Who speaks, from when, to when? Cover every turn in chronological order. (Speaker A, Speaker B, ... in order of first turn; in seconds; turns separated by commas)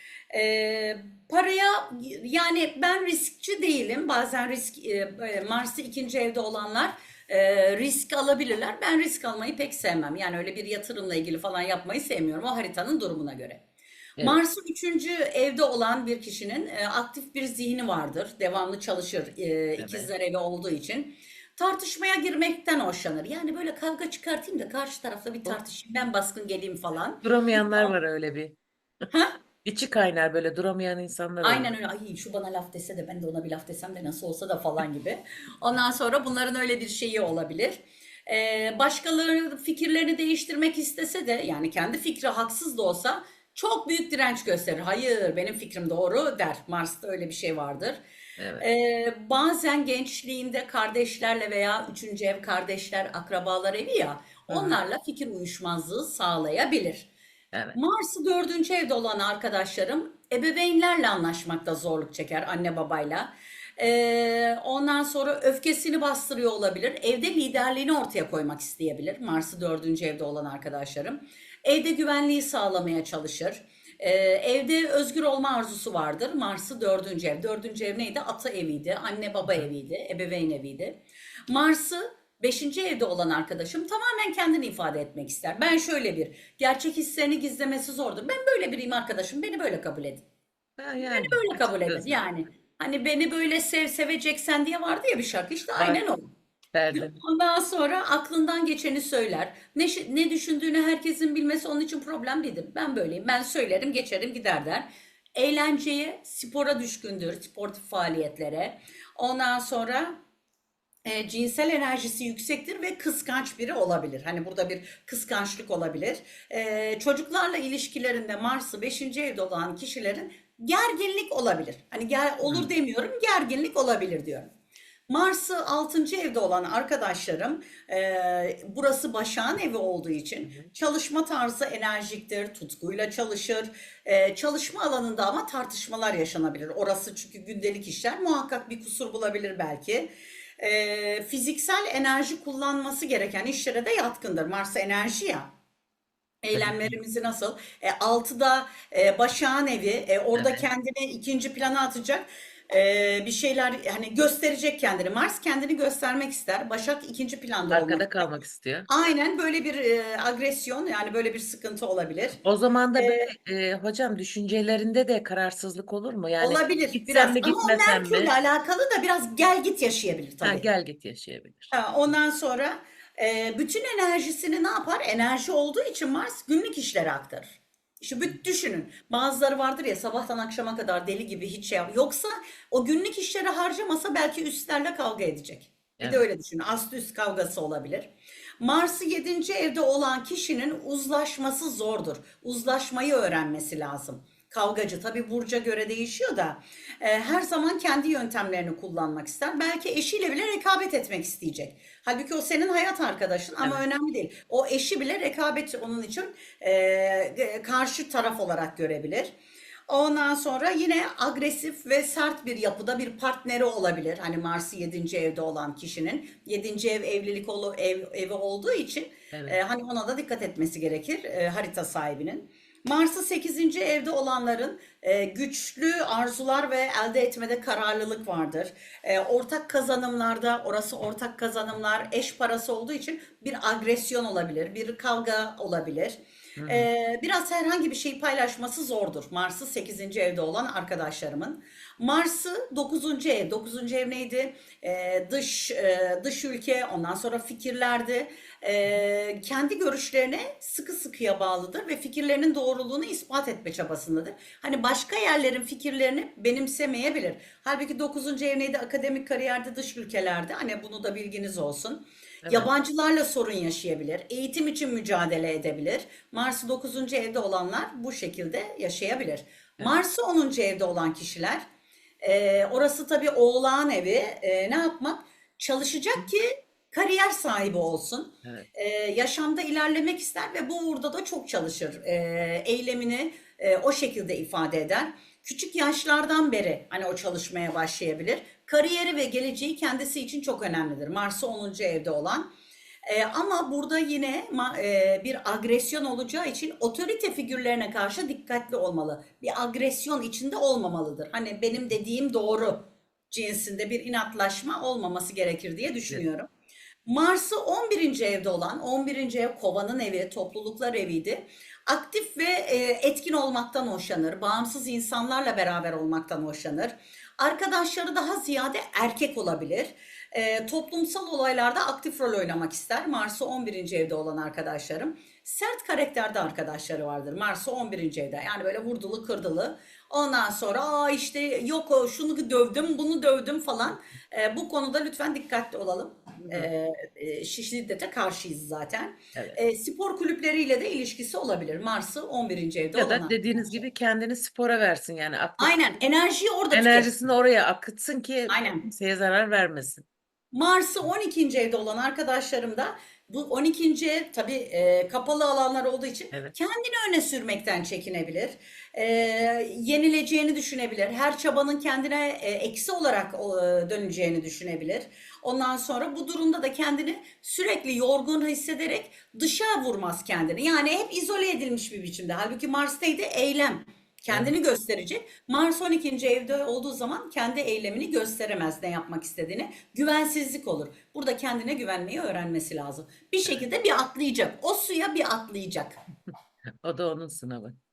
Speaker A: 0.3-13.6, Speaker A: 14.2-27.9, Speaker B: 19.8-20.1, Speaker B: 27.2-28.6, Speaker B: 29.6-31.7, Speaker A: 31.4-48.0, Speaker B: 48.4-48.6, Speaker A: 48.6-57.1, Speaker B: 54.5-54.8, Speaker A: 57.7-81.0, Speaker A: 81.5-90.2, Speaker B: 90.8-92.2, Speaker A: 91.0-96.3, Speaker B: 95.8-96.0, Speaker B: 96.7-97.2, Speaker A: 96.9-104.8, Speaker A: 105.3-110.1, Speaker A: 111.0-124.5, Speaker B: 122.4-122.7, Speaker A: 125.1-140.1, Speaker A: 140.6-145.5, Speaker A: 146.4-158.2, Speaker B: 146.5-146.9, Speaker B: 150.3-150.6, Speaker B: 157.7-158.9, Speaker A: 158.9-162.4, Speaker B: 162.4-168.3, Speaker A: 163.0-163.3, Speaker A: 166.4-170.7, Speaker B: 170.4-171.7, Speaker A: 171.7-188.1, Speaker B: 186.0-186.2, Speaker A: 188.6-209.3, Speaker A: 209.9-236.1, Speaker B: 236.6-236.9, Speaker A: 236.7-271.6, Speaker B: 262.4-262.7, Speaker A: 272.2-292.5, Speaker A: 293.1-306.5, Speaker A: 307.1-343.7, Speaker B: 342.9-345.7, Speaker A: 345.6-347.1, Speaker B: 346.7-350.1, Speaker A: 348.5-348.8, Speaker A: 350.5-386.0, Speaker B: 386.8-387.8